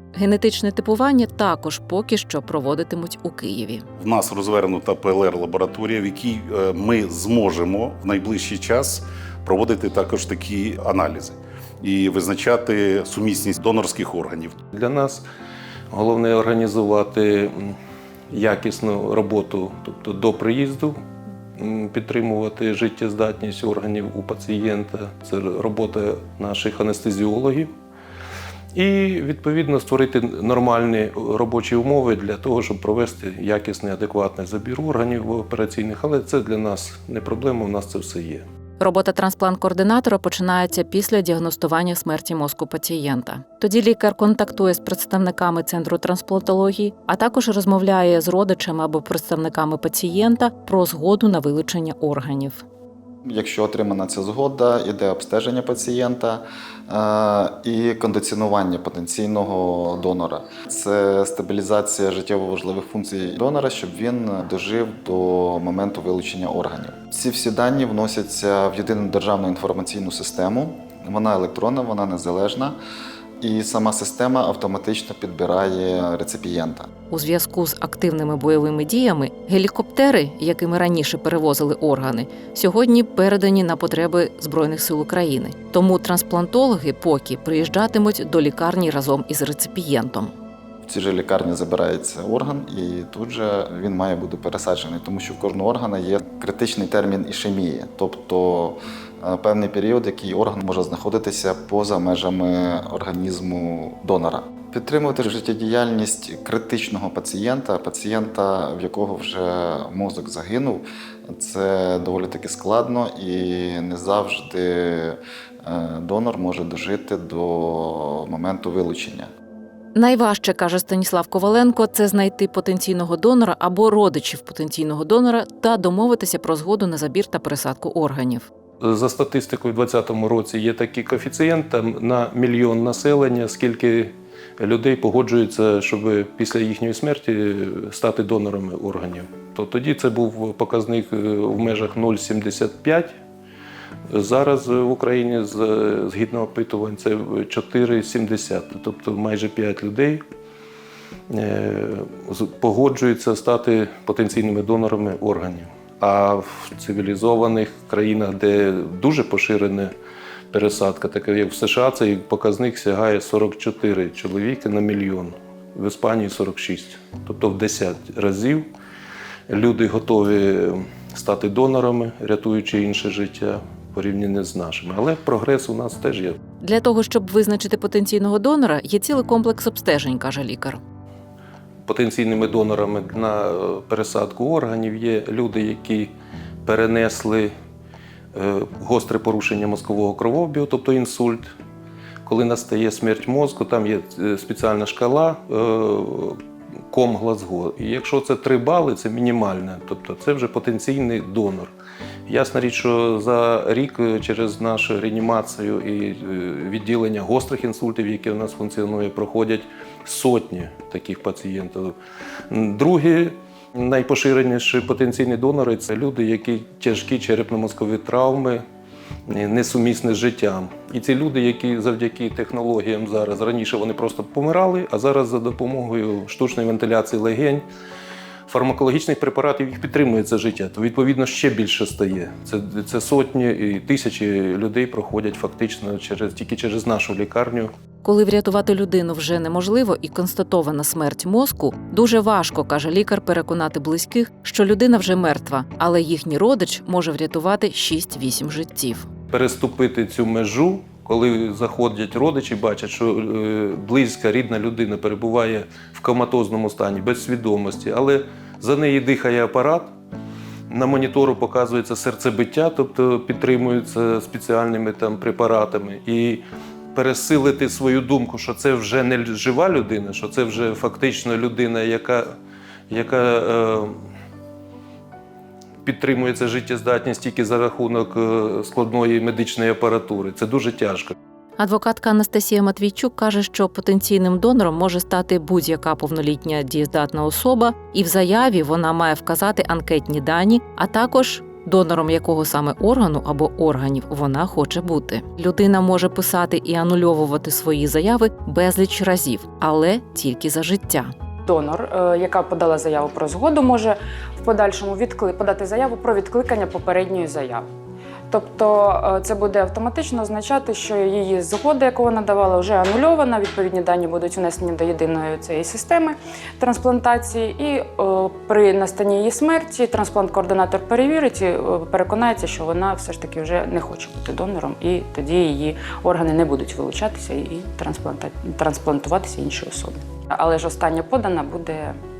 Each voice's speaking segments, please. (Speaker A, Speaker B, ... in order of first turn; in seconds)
Speaker A: 0.1-3.8, 38.8-52.6, 77.1-90.3, 119.9-128.5, 176.6-180.8, 238.0-249.1, 281.6-301.1
Speaker B: 4.0-14.6
Speaker C: 14.7-15.2, 15.9-17.8, 18.3-20.9, 21.6-27.7, 28.7-38.4, 128.8-143.1, 144.1-150.2, 151.3-159.9, 160.5-168.7, 169.5-176.4, 181.8-186.1, 186.6-187.5, 188.3-191.5, 192.2-196.4, 196.9-201.7, 202.3-211.9, 212.5-218.6, 219.3-227.6, 228.5-237.7, 249.3-259.9, 260.7-266.4, 266.9-272.3, 272.9-273.9, 275.8-281.1
Speaker D: 53.2-72.8, 73.4-76.9, 90.9-119.3
Speaker E: 301.4-307.7, 308.3-332.0